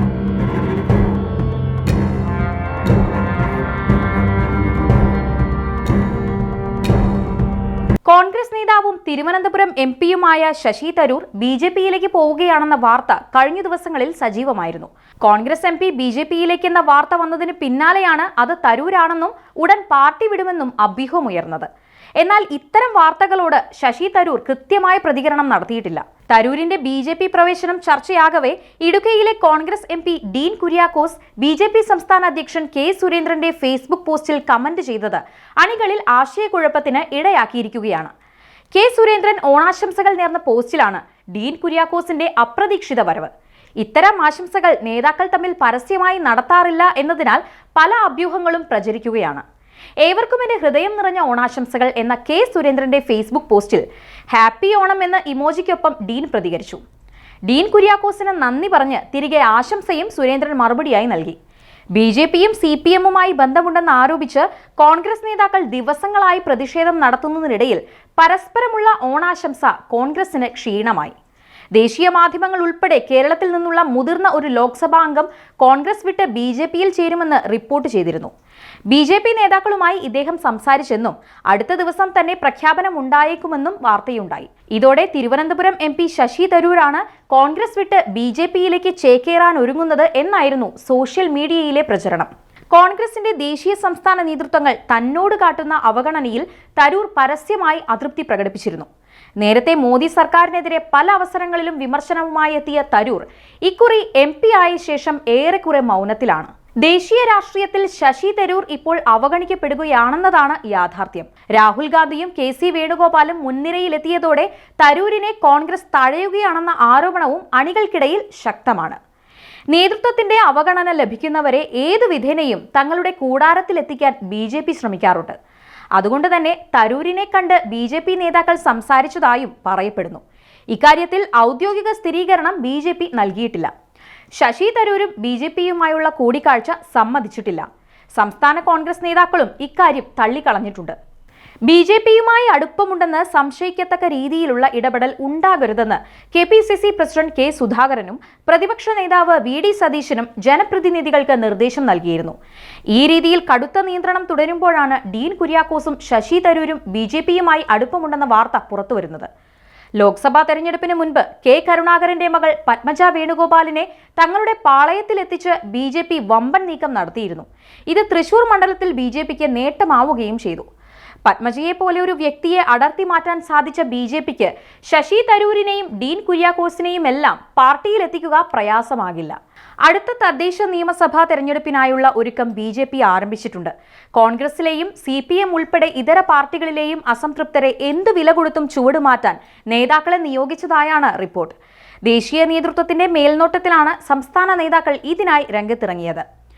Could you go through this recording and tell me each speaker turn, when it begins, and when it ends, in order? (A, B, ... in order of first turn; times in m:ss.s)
0:08.1-0:21.7 A
0:22.2-0:38.1 A
0:38.7-0:49.4 A
0:50.0-0:56.8 A
0:57.5-1:01.4 A
1:02.0-1:11.2 A
1:11.7-1:18.3 A
1:18.9-1:38.9 A
1:39.4-1:59.0 A
1:59.7-2:05.4 A
2:06.0-2:13.7 A
2:14.3-2:21.0 A
2:21.7-2:32.4 A
2:32.9-2:39.3 A
2:40.0-2:50.7 A
2:51.2-3:11.6 A
3:12.1-3:16.2 A